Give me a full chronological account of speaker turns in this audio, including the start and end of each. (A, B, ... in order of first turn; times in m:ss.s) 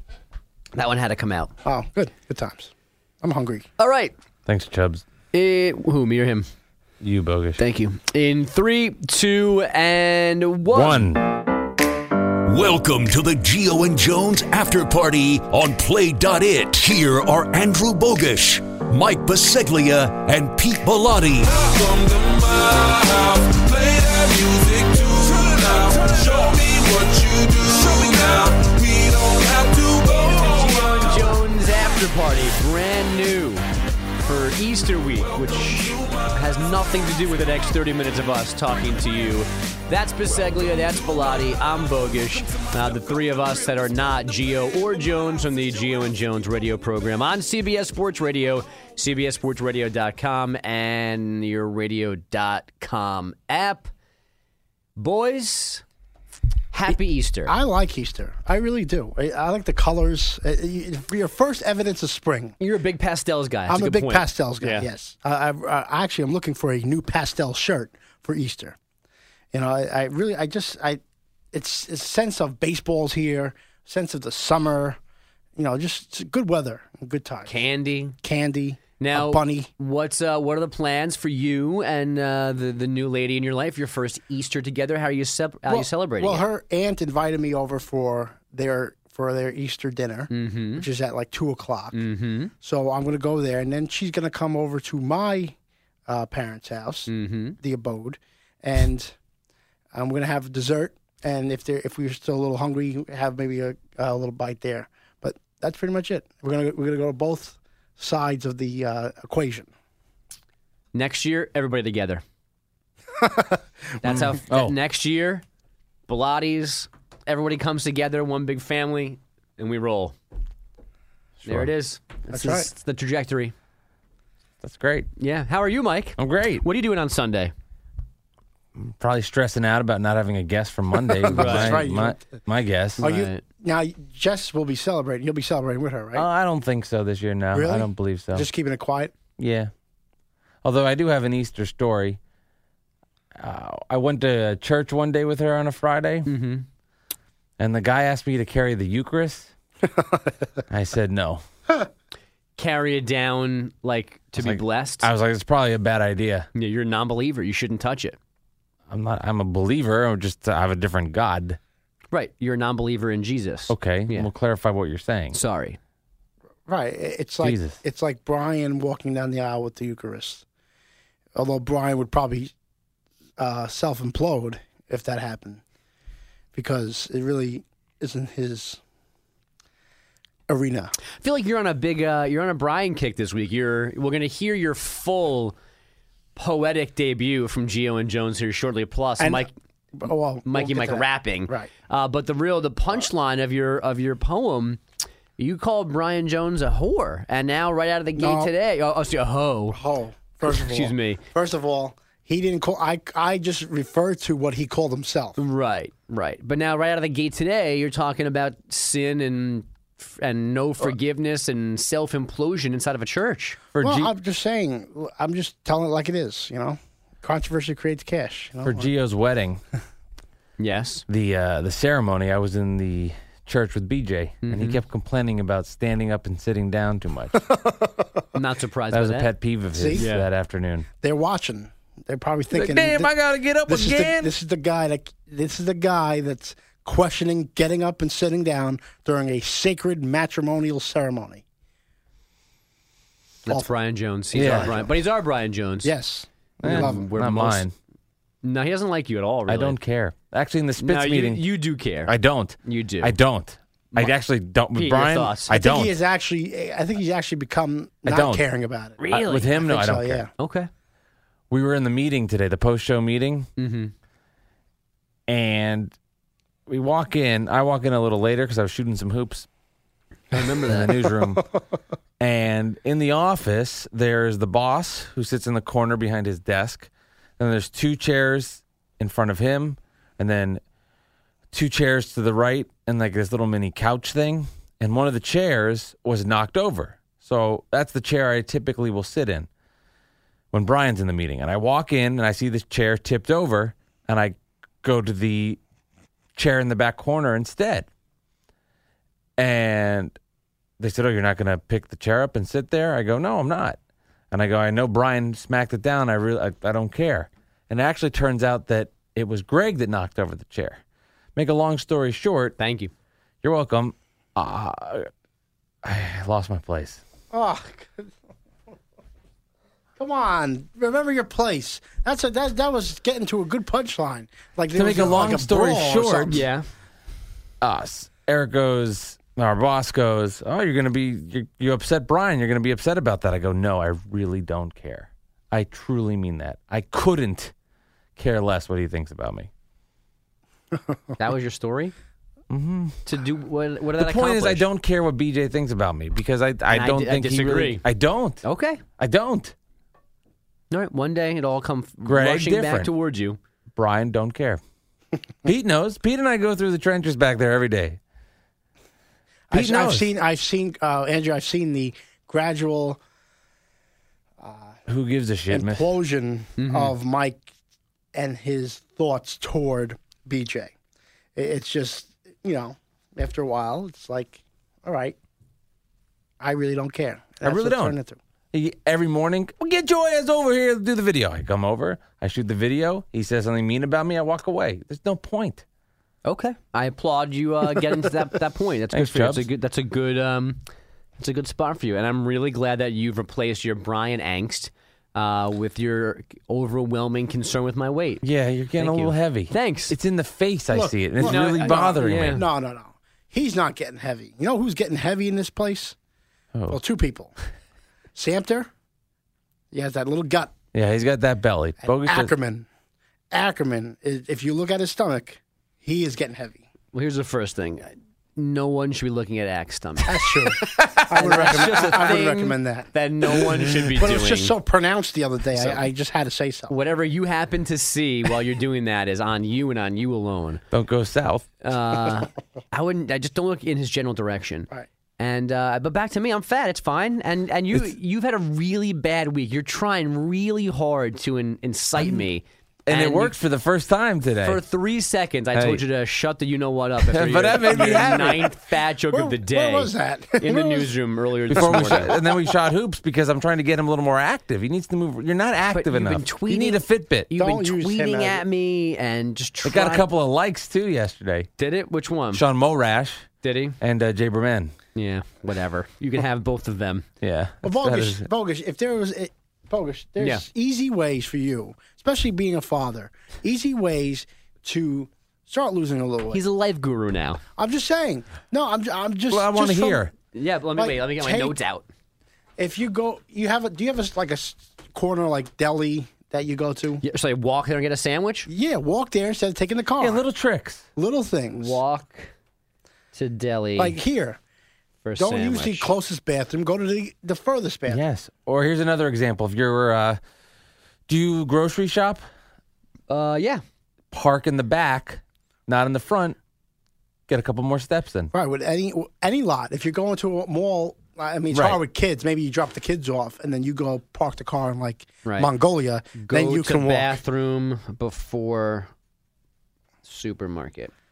0:00.7-0:01.5 A
0:01.6-0:03.6 B
0:03.8-0:04.1 A
0:04.5-0:05.0 C
0:05.3-0:06.5 A
0:07.0-0:07.6 C
0:07.6-0:11.1 A
0:10.7-0:11.2 C
0:12.5-0:21.5 D
0:21.4-0:31.3 E
0:30.3-0:33.7 A
0:34.2-0:53.9 A
0:35.6-0:36.4 E
0:55.0-0:55.8 A
0:56.7-0:57.5 A
0:56.9-1:02.6 B
1:02.6-1:04.9 A
1:03.7-1:08.8 B
1:09.5-1:11.0 B
1:11.5-1:15.0 B
1:15.6-1:17.5 B
1:17.5-1:18.2 A
1:18.2-1:19.7 B
1:19.0-1:26.4 A
1:25.7-1:32.0 B
1:30.3-1:30.9 A
1:31.9-1:32.5 A
1:32.6-1:35.6 B
1:36.1-1:39.2 B
1:37.1-1:37.6 A
1:39.9-1:49.7 B
1:50.9-1:52.2 A
1:53.2-1:54.0 B
1:54.0-1:55.4 A
1:54.0-1:54.8 C
1:56.1-2:00.2 A
2:01.4-2:03.5 A
2:02.3-2:02.7 B
2:04.6-2:05.1 C
2:05.2-2:07.5 A
2:06.2-2:06.6 C
2:08.8-2:13.0 C
2:11.2-2:12.4 B
2:11.3-2:11.8 A
2:13.0-2:13.4 A
2:13.0-2:16.2 B
2:16.1-2:18.5 C
2:17.5-2:19.1 B
2:19.4-2:19.7 C
2:20.6-2:22.2 C
2:23.4-2:26.3 C
2:26.2-2:26.7 A
2:27.6-2:29.5 C
2:30.7-2:31.4 C
2:32.6-2:35.1 A
2:34.4-2:36.5 C
2:36.5-2:38.2 A
2:38.9-2:41.6 C
2:42.1-2:44.3 A
2:43.7-2:45.4 C
2:45.3-2:45.8 A
2:46.7-2:50.4 B
2:47.4-2:47.8 C
2:51.3-2:52.5 B
2:53.4-2:55.6 B
2:56.5-2:58.8 B
3:00.5-3:00.9 B
3:01.2-3:05.6 A
3:06.4-3:09.5 A
3:09.2-3:11.7 B
3:10.4-3:14.8 A
3:15.4-3:19.8 A
3:18.2-3:18.5 B
3:19.7-3:25.4 B
3:20.4-3:21.2 A
3:25.4-3:33.6 A
3:33.7-3:34.1 C
3:33.8-3:38.9 B
3:38.6-3:39.6 C
3:40.6-3:41.0 A
3:41.1-3:47.4 C
3:44.4-3:44.8 A
3:47.3-3:48.2 B
3:48.3-3:49.3 A
3:48.9-3:50.9 C
3:49.7-3:50.1 B
3:49.9-3:50.3 A
3:51.0-3:53.1 B
3:52.5-3:54.3 C
3:53.7-4:01.4 B
4:03.4-4:05.9 A
4:04.3-4:04.9 B
4:04.3-4:04.7 C
4:05.8-4:07.1 B
4:06.6-4:07.7 C
4:06.6-4:07.6 A
4:08.4-4:09.8 A
4:09.5-4:11.4 C
4:10.8-4:12.1 A
4:12.0-4:15.9 C
4:12.6-4:13.1 A
4:14.8-4:15.5 A
4:15.5-4:19.0 B
4:18.0-4:18.4 C
4:19.0-4:19.5 A
4:19.1-4:20.2 C
4:19.5-4:20.3 B
4:20.4-4:20.7 A
4:21.5-4:23.5 C
4:23.6-4:23.9 A
4:25.3-4:25.9 C
4:26.7-4:29.5 C
4:30.3-4:31.0 A
4:30.6-4:31.4 C
4:31.1-4:31.4 B
4:32.2-4:40.6 C
4:41.5-4:49.5 C
4:50.5-4:55.6 C
4:56.4-4:57.9 C
4:59.4-5:00.1 C
5:00.8-5:03.8 C
5:04.3-5:10.8 C
5:11.4-5:12.6 C
5:12.6-5:12.9 A
5:13.4-5:15.1 C
5:15.8-5:17.0 C
5:17.3-5:18.1 B
5:20.0-5:26.4 B
5:24.8-5:26.4 C
5:26.3-5:26.7 A
5:27.6-5:37.5 C
5:38.2-5:39.5 C
5:41.2-5:41.9 A
5:42.5-5:43.0 C
5:43.0-5:44.6 A
5:44.0-5:48.4 C
5:46.7-5:47.8 A
5:48.4-5:48.8 A
5:49.0-5:49.5 C
5:50.7-5:53.4 A
5:52.1-5:52.9 C
5:53.8-5:54.6 C
5:55.4-5:58.0 C
5:59.5-6:03.0 B
5:59.5-6:00.1 C
6:04.4-6:04.8 B
6:04.9-6:05.9 C
6:05.5-6:07.4 B
6:06.6-6:06.9 A
6:08.1-6:10.7 B
6:11.3-6:15.2 B
6:16.4-6:18.2 B
6:17.4-6:18.0 C
6:18.5-6:25.6 C
6:26.2-6:30.6 A
6:28.9-6:29.4 C
6:31.2-6:38.2 A
6:38.2-6:42.4 C
6:38.8-6:40.0 A
6:40.7-6:46.0 B
6:41.2-6:42.4 A
6:46.7-6:47.3 B
6:48.1-6:48.7 B
6:49.7-6:50.5 B
6:50.7-6:52.3 C
6:51.8-6:52.7 B
6:53.3-6:56.6 B
6:56.9-7:04.5 A
7:00.0-7:06.7 B
7:05.6-7:05.8 A
7:06.7-7:10.6 A
7:10.7-7:11.5 C
7:11.6-7:23.3 A
7:22.9-7:24.6 C
7:24.4-7:32.1 A
7:25.6-7:25.8 C
7:27.1-7:28.5 C
7:29.1-7:30.9 B
7:31.5-7:37.3 C
7:31.5-7:32.5 B
7:35.7-7:40.1 A
7:37.3-7:38.4 B
7:39.6-7:41.5 C
7:41.6-7:42.4 A
7:42.3-7:43.2 C
7:43.4-7:43.8 A
7:43.8-7:44.7 C
7:44.9-7:47.1 A
7:47.2-7:48.2 C
7:47.6-7:56.4 B
7:50.2-7:50.4 A
7:56.3-7:57.4 A
7:57.6-8:00.1 B
7:59.3-8:00.1 C
8:00.3-8:01.9 A
8:00.8-8:01.6 B
8:02.6-8:07.0 B
8:07.0-8:08.5 A
8:08.5-8:10.2 B
8:10.0-8:10.8 C
8:11.0-8:11.8 B
8:11.6-8:12.3 A
8:13.1-8:14.0 A
8:13.8-8:14.4 B
8:15.0-8:15.9 A
8:15.2-8:18.0 B
8:17.9-8:20.2 C
8:21.1-8:22.2 C
8:23.1-8:23.6 A
8:24.1-8:26.4 C
8:27.3-8:28.3 C
8:28.3-8:37.2 B
8:31.5-8:31.8 C
8:35.2-8:35.5 A
8:36.2-8:38.9 A
8:40.0-8:40.9 A